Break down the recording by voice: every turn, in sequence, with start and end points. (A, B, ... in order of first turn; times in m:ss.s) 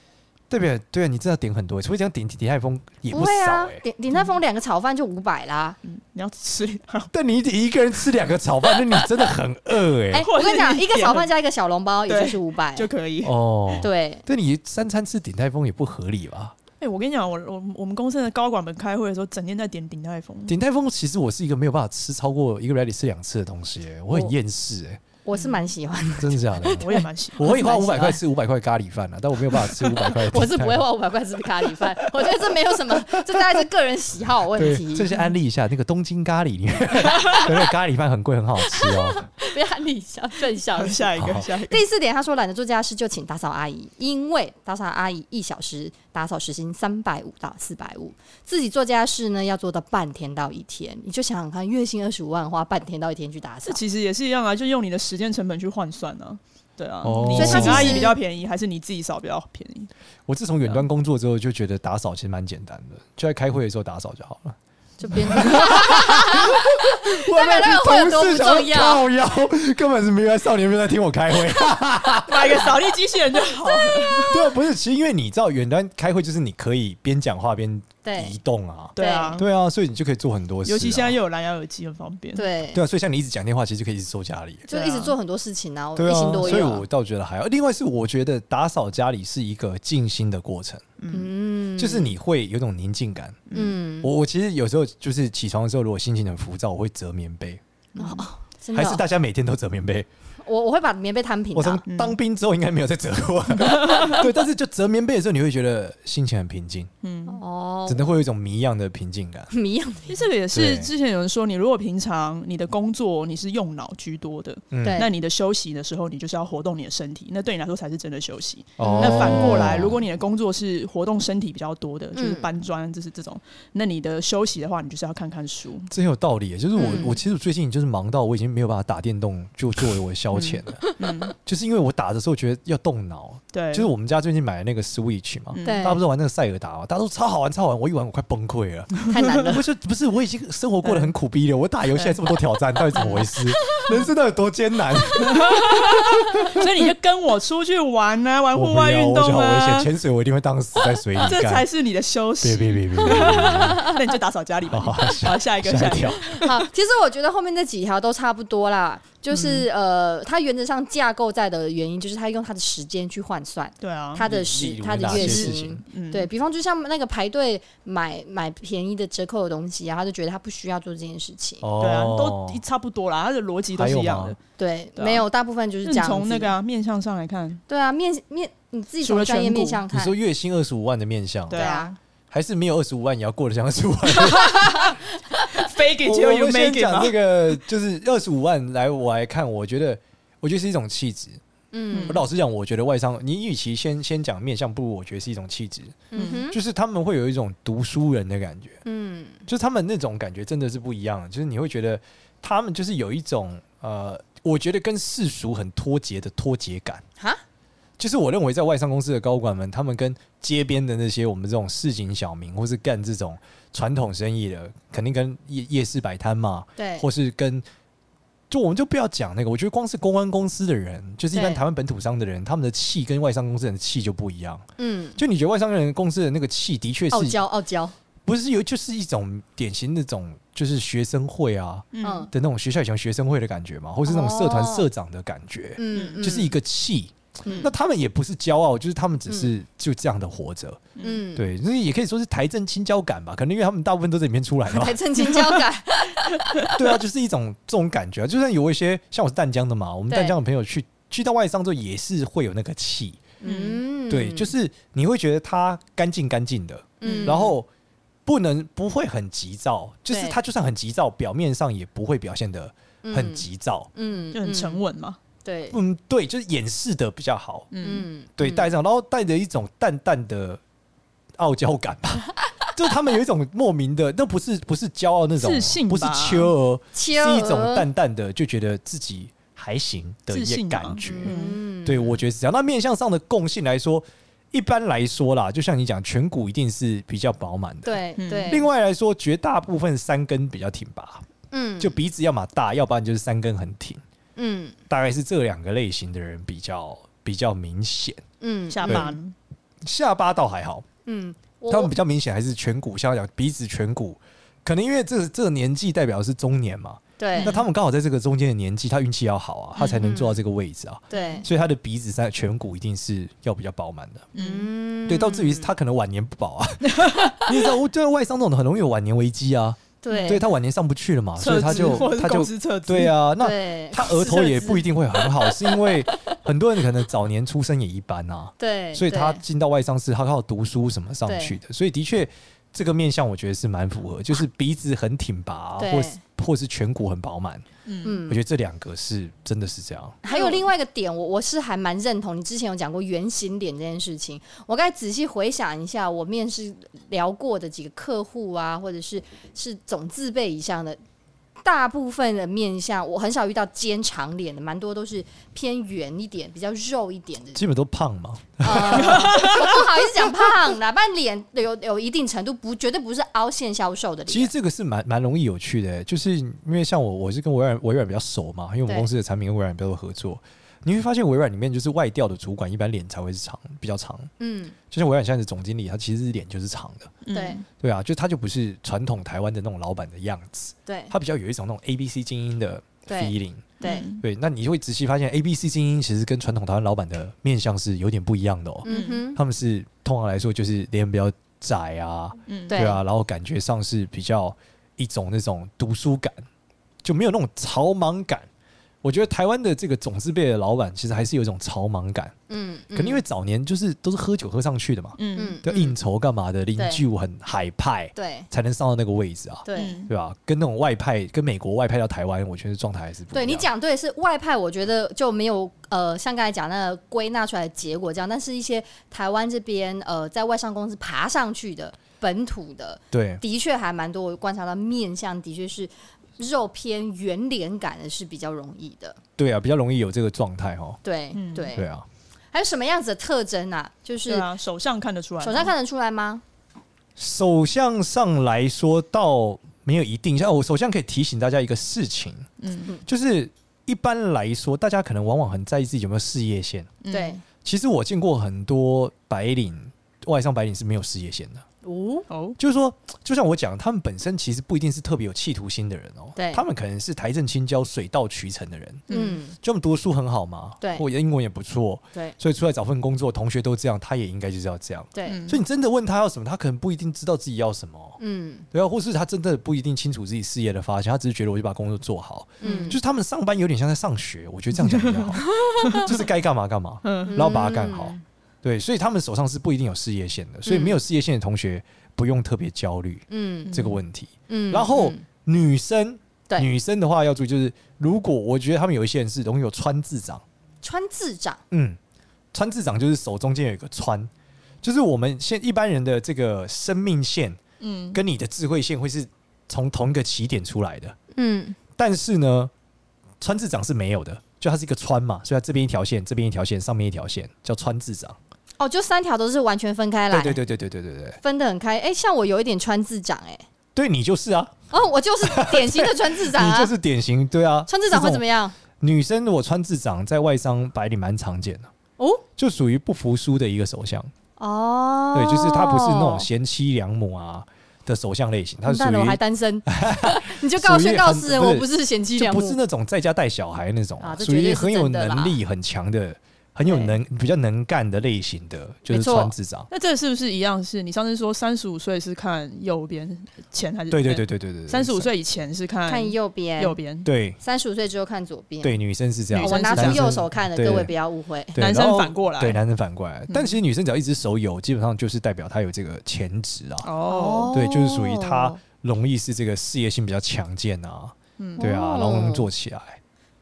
0:00.5-0:03.8 A
0:03.1-0:05.8 B
0:05.8-0:07.1 C
0:07.1-0:10.3 A
0:08.6-0:09.2 C
0:10.1-0:12.9 B
0:10.2-0:11.3 C
0:12.1-0:13.4 C
0:13.2-0:16.6 A
0:13.8-0:14.2 B
0:16.8-0:20.6 C
0:20.5-0:25.0 A
0:25.2-0:28.2 B
0:26.2-0:30.8 A
0:26.8-0:27.6 C
0:29.5-0:35.1 B
0:31.6-0:33.6 A
0:34.6-0:39.3 A
0:38.7-0:53.8 B
0:40.7-0:41.8 C
0:41.2-0:41.5 A
0:53.6-0:59.9 C
0:57.0-0:58.1 A
0:57.3-0:58.2 B
1:00.3-1:04.6 A
1:05.0-1:09.0 B
1:05.1-1:12.7 A
1:12.3-1:14.4 C
1:14.2-1:21.2 A
1:18.0-1:18.4 B
1:19.0-1:19.5 C
1:19.0-1:19.4 B
1:20.6-1:22.5 C
1:22.4-1:22.8 B
1:22.7-1:24.7 A
1:24.7-1:26.9 B
1:24.7-1:25.2 C
1:26.0-1:30.8 A
1:26.4-1:26.7 C
1:31.0-1:31.3 C
1:31.1-1:32.2 B
1:31.8-1:33.5 A
1:33.5-1:33.8 C
1:33.5-1:34.1 B
1:34.0-1:37.6 A
1:38.0-1:38.2 C
1:38.0-1:39.0 B
1:38.7-1:40.1 A
1:40.4-1:41.8 B
1:41.6-1:46.9 A
1:41.9-1:42.2 C
1:43.6-1:44.2 C
1:47.0-1:47.4 C
1:47.3-1:48.2 B
1:47.9-1:49.5 A
1:49.5-1:50.3 B
1:50.1-2:05.9 C
1:50.5-1:50.9 A
1:54.7-1:55.0 A
1:54.8-1:55.1 B
1:58.8-2:00.0 A
1:58.8-1:59.7 B
2:02.2-2:02.5 B
2:05.9-2:10.8 A
2:06.8-2:07.2 B
2:10.3-2:11.3 C
2:11.4-2:26.7 A
2:13.5-2:13.9 C
2:15.5-2:15.9 C
2:15.6-2:16.0 B
2:19.1-2:19.6 B
2:20.8-2:21.1 C
2:22.9-2:24.1 C
2:25.2-2:29.9 C
2:28.6-2:31.7 A
2:31.2-2:36.6 C
2:32.4-2:33.9 A
2:33.1-2:34.0 B
2:34.7-2:36.4 A
2:36.3-2:51.7 B
2:39.3-2:39.7 C
2:43.8-2:44.3 C
2:44.2-2:45.8 A
2:45.1-2:46.3 C
2:51.6-2:52.6 A
2:51.8-2:54.4 C
2:53.8-2:54.4 A
2:54.6-2:56.5 B
2:55.0-2:55.2 C
2:55.8-2:57.6 C
2:57.7-3:00.2 B
2:59.0-2:59.8 C
2:59.9-3:01.7 A
3:01.5-3:02.0 C
3:01.5-3:01.9 B
3:02.3-3:05.0 A
3:04.2-3:05.0 C
3:05.5-3:07.2 C
3:06.0-3:11.4 A
3:11.7-3:12.2 B
3:11.9-3:12.2 C
3:12.1-3:18.8 A
3:16.1-3:16.6 B
3:16.1-3:16.5 C
3:18.8-3:19.4 B
3:19.5-3:27.0 A
3:28.0-3:37.6 A
3:36.8-3:37.1 B
3:38.5-3:44.6 A
3:41.3-3:41.6 B
3:44.8-3:45.2 B
3:45.2-3:47.4 A
3:47.1-3:48.0 B
3:48.3-4:05.0 A
3:51.9-3:52.3 C
3:52.0-3:52.3 B
3:54.0-3:54.9 B
3:55.8-3:56.5 B
3:55.9-3:56.3 C
4:01.0-4:01.2 C
4:01.0-4:01.4 B
4:04.7-4:06.8 B
4:05.2-4:05.6 C
4:06.7-4:13.2 A
4:10.1-4:10.4 B
4:13.4-4:14.5 B
4:13.4-4:13.8 C
4:14.1-4:17.7 A
4:17.0-4:17.6 B
4:17.0-4:17.5 C
4:18.3-4:23.9 A
4:20.1-4:20.4 B
4:23.0-4:24.8 B
4:24.3-4:25.2 C
4:25.4-4:25.8 B
4:25.7-4:27.7 A
4:27.7-4:28.1 C
4:27.8-4:28.7 B
4:28.4-4:30.6 A
4:31.4-4:51.2 A
4:35.4-4:36.5 C
4:36.9-4:37.9 B
4:40.3-4:41.6 C
4:41.0-4:42.2 B
4:47.8-4:48.7 B
4:48.2-4:48.6 C
4:51.5-4:52.0 B
4:51.8-4:54.0 A
4:54.4-4:54.8 B
4:54.9-4:58.2 A
4:58.4-4:59.2 B
4:58.7-4:59.4 C
4:59.9-5:00.9 A
5:01.1-5:01.9 B
5:01.7-5:14.3 A
5:07.2-5:07.6 B
5:07.4-5:07.6 C
5:09.8-5:10.4 B
5:11.1-5:11.5 B
5:11.1-5:11.4 C
5:14.4-5:14.7 C
5:14.4-5:15.7 B
5:15.1-5:37.7 A
5:16.8-5:17.4 C
5:20.0-5:20.5 B
5:20.1-5:20.4 C
5:21.4-5:23.2 C
5:21.7-5:22.0 B
5:23.4-5:24.9 B
5:28.6-5:29.4 B
5:31.3-5:31.6 B
5:35.8-5:36.2 B
5:37.9-5:38.2 C
5:38.0-5:38.4 B
5:38.3-5:40.2 A
5:40.2-5:51.0 B
5:40.3-5:40.7 C
5:51.6-5:57.6 B
5:57.6-5:59.4 A
5:58.6-6:04.5 B
5:59.0-6:00.5 C
6:04.3-6:14.3 A
6:14.4-6:14.8 B
6:14.9-6:17.1 A
6:17.2-6:17.6 C
6:17.3-6:17.6 B
6:17.8-6:36.5 A
6:20.9-6:21.1 B
6:23.1-6:24.1 B
6:23.8-6:24.2 C
6:28.8-6:29.4 B
6:28.9-6:29.2 C
6:32.5-6:32.8 C
6:32.7-6:33.0 B
6:37.0-6:38.5 A
6:39.0-6:42.3 A
6:42.5-6:43.2 B
6:43.0-6:53.7 A
6:45.2-6:45.6 C
6:45.4-6:46.0 B
6:46.8-6:47.0 B
6:48.2-6:48.5 B
6:49.6-6:50.0 B
6:49.7-6:50.1 C
6:53.3-7:09.2 B
7:03.1-7:03.4 A
7:09.4-7:11.0 A
7:11.0-7:11.9 B
7:11.3-7:11.7 C
7:11.7-7:12.0 A
7:12.5-7:14.5 B
7:14.3-7:15.7 C
7:15.4-7:16.4 B
7:17.2-7:22.5 A
7:22.6-7:22.9 C
7:23.1-7:27.0 A
7:27.0-7:27.4 C
7:27.1-7:27.4 B
7:27.6-7:31.6 A
7:31.8-7:32.3 B
7:32.3-7:32.6 C
7:32.6-7:48.2 A
7:36.4-7:36.6 B
7:39.1-7:39.4 C
7:39.1-7:39.6 B
7:40.8-7:41.1 B
7:45.1-7:45.4 B
7:45.3-7:45.6 C
7:48.2-7:48.7 B
7:48.7-8:10.4 A
7:52.6-7:53.0 B
7:52.6-7:53.0 C
7:54.8-7:56.1 C
7:57.0-7:57.4 C
7:57.3-7:58.2 B
8:00.7-8:01.0 B
8:03.3-8:03.8 B
8:03.7-8:04.0 C
8:04.5-8:05.2 B
8:10.8-8:11.6 B
8:11.7-8:12.0 A
8:12.5-8:14.3 A
8:14.8-8:17.6 A
8:17.8-8:18.2 C
8:18.1-8:21.2 A
8:21.4-8:21.8 B
8:22.0-8:22.7 A
8:23.4-8:28.4 A
8:28.8-8:30.6 B
8:30.3-8:31.4 A
8:31.4-8:33.6 B
8:34.0-8:34.8 A
8:34.9-8:36.9 B
8:35.4-8:38.4 A
8:37.9-8:38.8 B
8:39.0-8:41.9 A
8:42.2-8:42.4 B
8:42.6-8:44.3 A
8:44.6-8:46.5 B
8:45.3-8:59.9 A
8:48.9-8:52.8 B
8:54.2-8:55.6 B
8:56.9-8:57.2 B
8:59.1-8:59.5 B
8:59.9-9:07.3 C
9:04.1-9:05.3 A
9:06.1-9:07.0 B
9:07.2-9:07.6 A
9:07.6-9:09.0 B
9:08.8-9:11.1 A
9:09.5-9:10.3 C
9:09.6-9:11.8 B
9:11.7-9:17.1 A
9:11.8-9:12.8 C
9:13.5-9:13.8 C
9:17.0-9:17.7 C
9:17.3-9:18.8 B
9:17.7-9:23.2 A
9:21.6-9:21.9 C
9:21.8-9:22.7 B